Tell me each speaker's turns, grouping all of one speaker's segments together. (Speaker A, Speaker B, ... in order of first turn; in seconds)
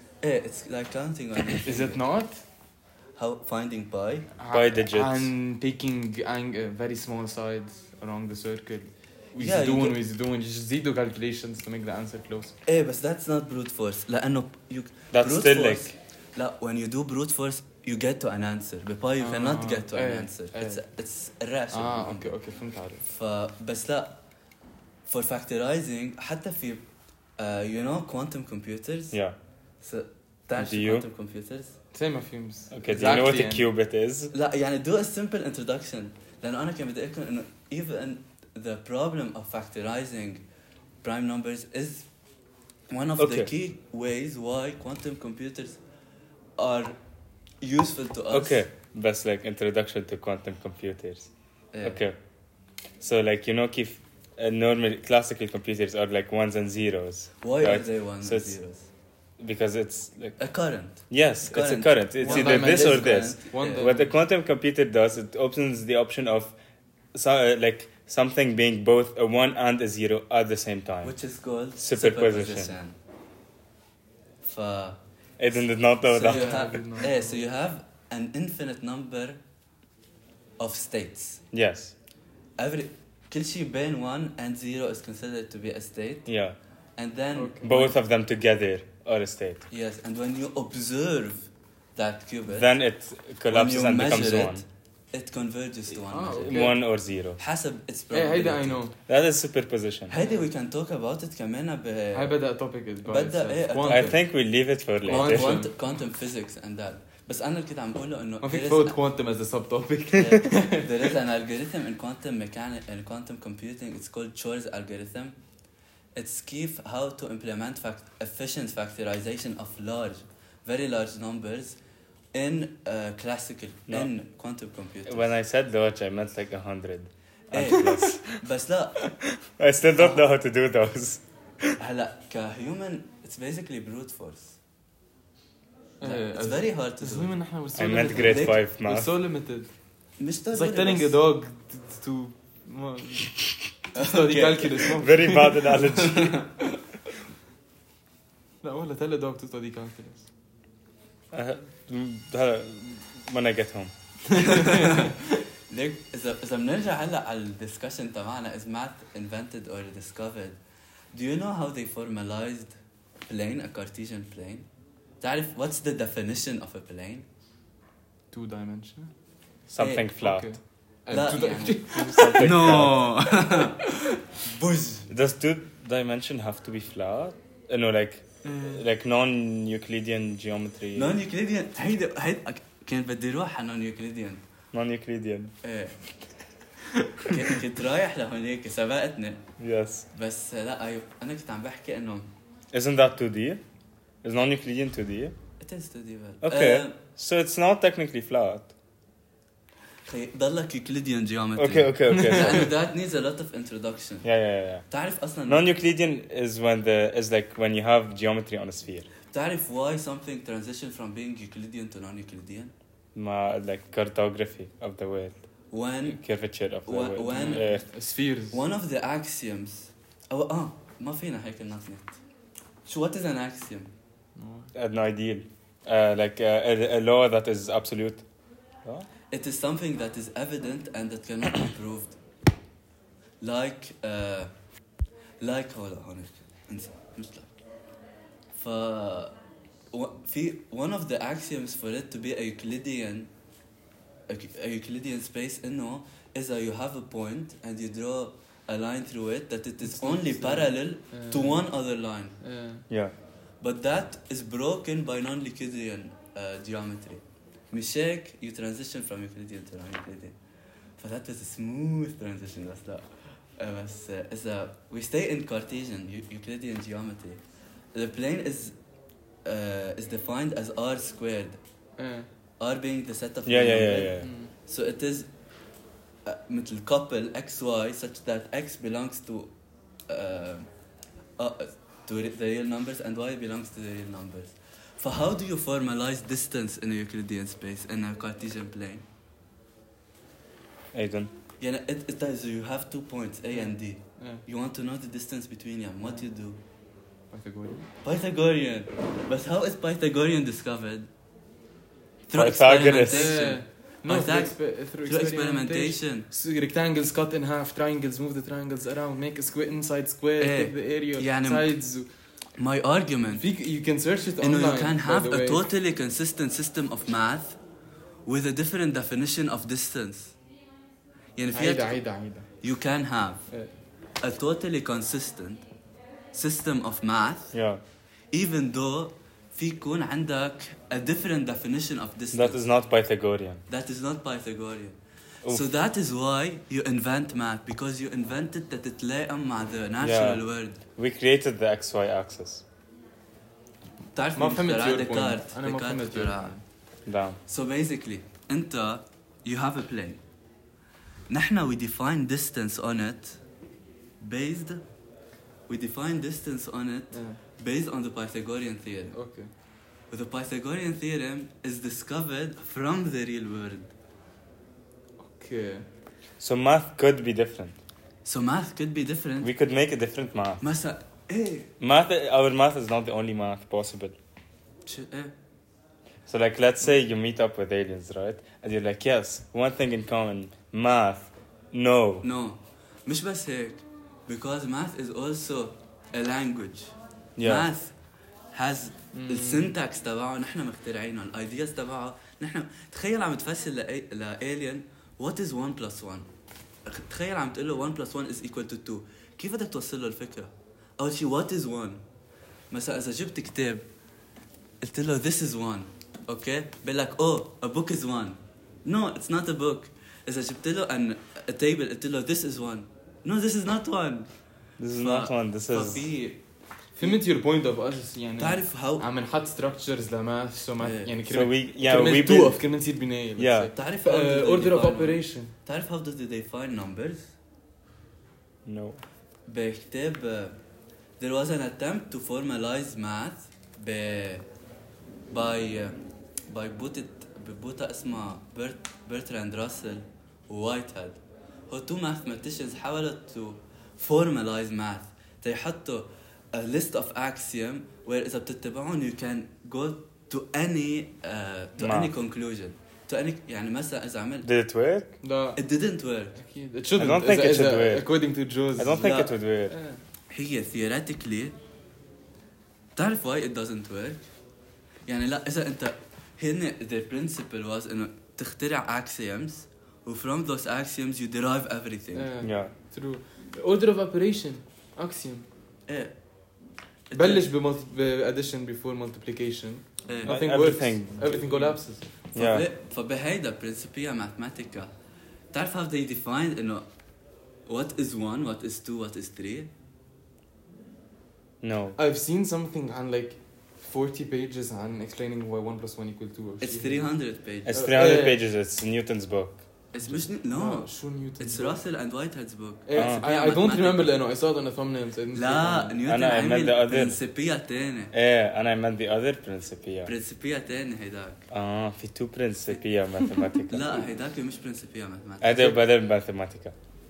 Speaker A: 0.2-2.0, 3.2-4.3, 9.4-10.0, 12.7-22.3, 23.1-24.2, 25.1-26.9, 27.4-29.2, 29.8-31.8, 34.3-40.4, 41.0-42.0, 42.9-45.8, 46.6-47.0, 47.6-48.6, 51.7-52.0, 57.4-58.9, 60.4-63.9, 71.0-73.0, 74.4-75.0, 76.0-79.4, 80.6-81.4, 82.6-86.3, 87.0-87.9, 89.7-92.7, 93.5-96.7, 97.4-98.8, 100.1-102.3, 103.0-104.2, 105.1-109.0, 110.1-115.4, 116.2-121.8, 122.3-125.3, 127.5-129.0, 130.0-130.3, 131.8-134.6, 136.0-137.4, 138.2-138.6, 140.2-141.2, 144.0-144.9, 145.8-146.5, 154.3-155.2, 155.7-160.6, 161.1-162.8, 163.3-164.7, 165.2-167.3, 169.8-170.1, 171.1-175.1, 180.9-184.4, 185.6-186.0, 187.2-189.4, 190.1-192.3, 195.6-196.9, 200.1-204.3, 204.9-205.7, 209.3-212.7, 215.7-216.2, 216.9-217.8, 218.5-222.2, 222.9-223.9, 229.3-232.2, 233.4-234.5, 235.4-237.5, 238.6-239.3, 239.9-243.3, 244.3-252.4, 253.6-260.4, 261.0-267.4, 267.9-268.7, 269.4-271.6, 272.6-275.3, 276.2-279.5, 280.1-280.7, 281.4-289.1, 291.6-296.6, 298.0-301.1, 302.3-306.3, 310.4-311.8, 312.6-313.4, 314.4-317.6, 318.3-320.3, 321.4-322.0, 322.6-323.4, 324.2-325.6, 326.3-327.5, 328.3-332.6, 333.7-340.8, 344.1-346.6, 347.5-350.2, 351.3-353.4, 354.2-354.8, 355.7-359.2, 360.1-363.9, 368.2-369.5, 370.6-371.7, 374.9-375.3, 382.2-387.9, 388.5-396.3, 396.9-402.0, 402.7-403.9, 404.8-414.3, 415.0-416.4, 418.4-419.1, 420.8-421.1, 423.7-427.3, 429.5-430.6, 431.2-434.4, 435.3-436.0, 436.5-441.2, 441.7-454.5, 455.6-456.4, 459.0-459.3, 460.3-461.6, 463.0-464.2, 465.1-472.3, 475.9-476.1, 477.1-477.5, 480.1-480.3, 482.4-484.9, 485.5-486.9, 487.7-489.7, 496.6-497.8, 499.9-504.1, 505.3-508.1, 510.1-511.4, 513.7-515.8
Speaker B: 1.6-2.4, 4.4-12.6, 19.2-20.8, 21.7-23.0, 31.9-33.7, 62.2-64.1, 76.3-77.3, 87.3-87.9, 96.1-96.8, 98.1-99.0, 102.1-104.2, 105.1-105.7, 108.4-111.1, 136.0-139.7, 140.5-143.3, 143.9-145.6, 148.6-150.3, 154.3-155.3, 168.3-169.1, 170.2-172.8, 178.4-178.8, 217.3-218.6, 224.4-224.7, 249.8-251.6, 252.4-252.9, 272.0-272.3, 274.2-274.5, 293.6-294.4, 297.3-297.9, 303.0-312.1, 313.4-315.6, 321.5-322.5, 344.4-346.6, 357.1-357.4, 359.1-359.5, 365.2-365.9, 389.1-389.8, 417.0-425.5, 455.2-455.6, 456.4-459.1, 459.7-460.0, 472.1-475.5, 477.1-482.1, 492.0-497.1, 497.7-498.4, 500.1-501.8, 502.9-506.0
Speaker C: 4.5-5.3, 15.1-15.9, 30.6-31.1, 32.7-34.3, 43.2-43.5, 48.3-51.3, 51.8-52.2, 53.0-58.5, 59.4-60.4, 61.1-66.6, 67.1-71.1, 71.8-72.7, 75.4-76.7, 81.5-81.9, 86.3-86.6, 87.6-89.7, 92.5-94.6, 96.4-97.4, 99.1-100.2, 103.8-105.6, 125.1-128.4, 129.1-131.8, 137.8-139.2, 145.0-146.4, 151.3-153.9, 169.7-170.6, 171.9-173.1, 175.1-181.2, 184.7-185.5, 189.6-190.1, 192.7-193.6, 194.2-195.3, 196.4-198.7, 201.6-202.7, 204.2-204.8, 205.5-209.1, 213.2-215.4, 216.1-217.8, 224.7-228.2, 273.5-274.3, 290.9-291.3, 302.4-303.4, 327.5-327.8, 332.3-333.6, 340.0-340.4, 341.0-342.6, 347.1-347.4, 366.4-367.8, 369.4-370.6, 371.8-374.2, 376.3-382.3, 387.4-387.7, 414.8-416.1, 421.3-422.6, 423.4-423.7, 428.6-429.0, 451.8-452.1, 454.4-455.2, 457.0-458.1, 458.8-459.8, 472.4-472.7, 480.2-481.8, 482.4-482.7, 491.6-492.0, 497.6-499.6, 503.0-503.2, 506.1-507.2, 508.1-510.1, 511.5-514.1, 515.4-516.8